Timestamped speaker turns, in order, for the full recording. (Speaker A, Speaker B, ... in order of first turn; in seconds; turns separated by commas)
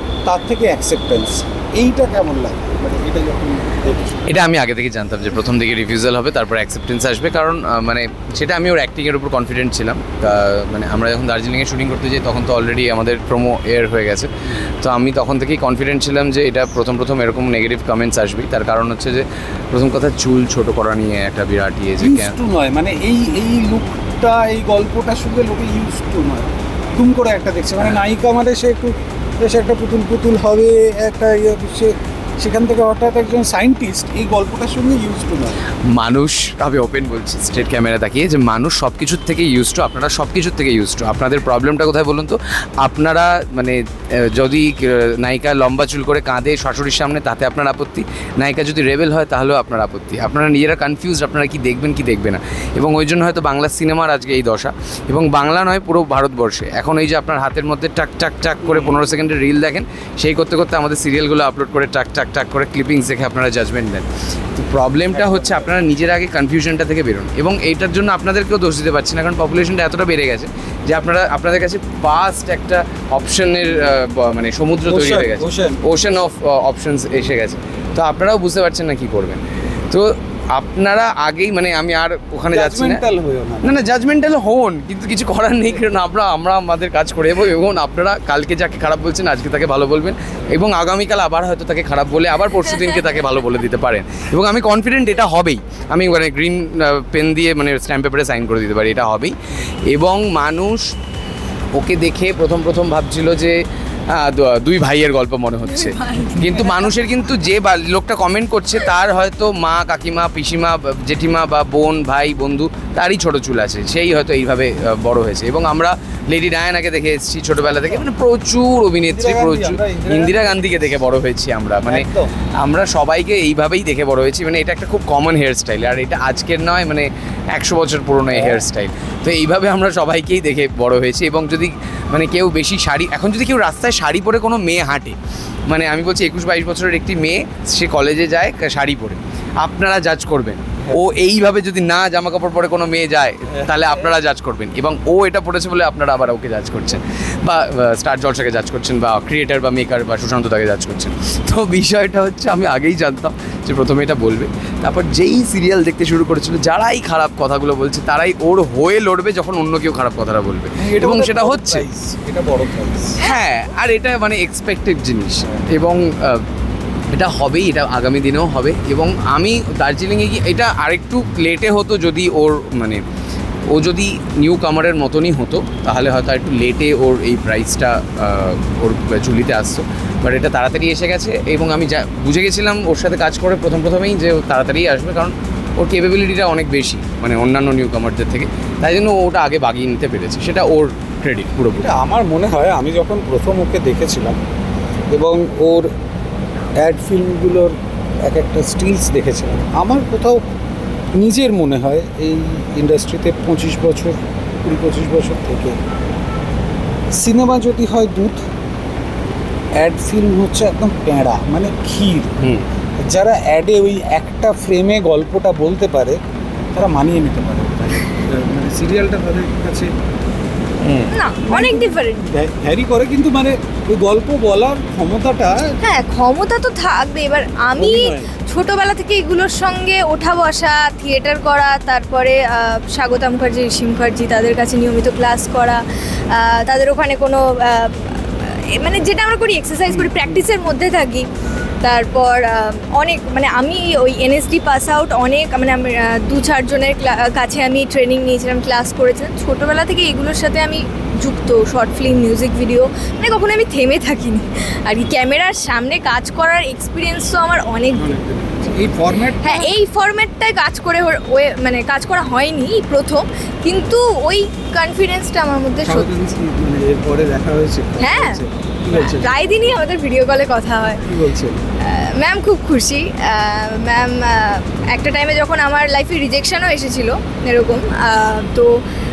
Speaker A: 0.2-4.3, Speaker B: 4.3-22.4, Speaker A: 22.0-35.6, Speaker B: 35.9-83.0, Speaker A: 65.1-65.7, Speaker A: 74.8-75.8, Speaker A: 82.5-83.8, Speaker B: 83.6-100.9, Speaker B: 101.7-161.8, Speaker C: 105.6-106.8, Speaker A: 119.0-121.0, Speaker A: 121.9-122.3, Speaker A: 128.3-128.6, Speaker A: 143.6-144.1, Speaker A: 160.8-163.2, Speaker B: 163.2-166.4, Speaker B: 167.1-173.0, Speaker B: 173.7-191.9, Speaker A: 191.8-194.4, Speaker A: 195.1-195.9, Speaker A: 196.8-200.4, Speaker A: 201.1-205.8, Speaker A: 207.2-208.4, Speaker A: 209.8-212.3, Speaker B: 212.4-212.6, Speaker A: 213.0-216.2, Speaker A: 216.7-219.9, Speaker B: 220.8-221.1, Speaker C: 221.1-222.3, Speaker A: 221.4-225.8, Speaker C: 225.8-241.3, Speaker A: 227.8-228.3, Speaker A: 239.9-240.4, Speaker C: 241.8-258.1, Speaker A: 257.9-259.7, Speaker C: 259.4-266.1, Speaker A: 265.8-269.3, Speaker C: 268.0-271.0, Speaker A: 271.0-271.6, Speaker C: 271.8-278.8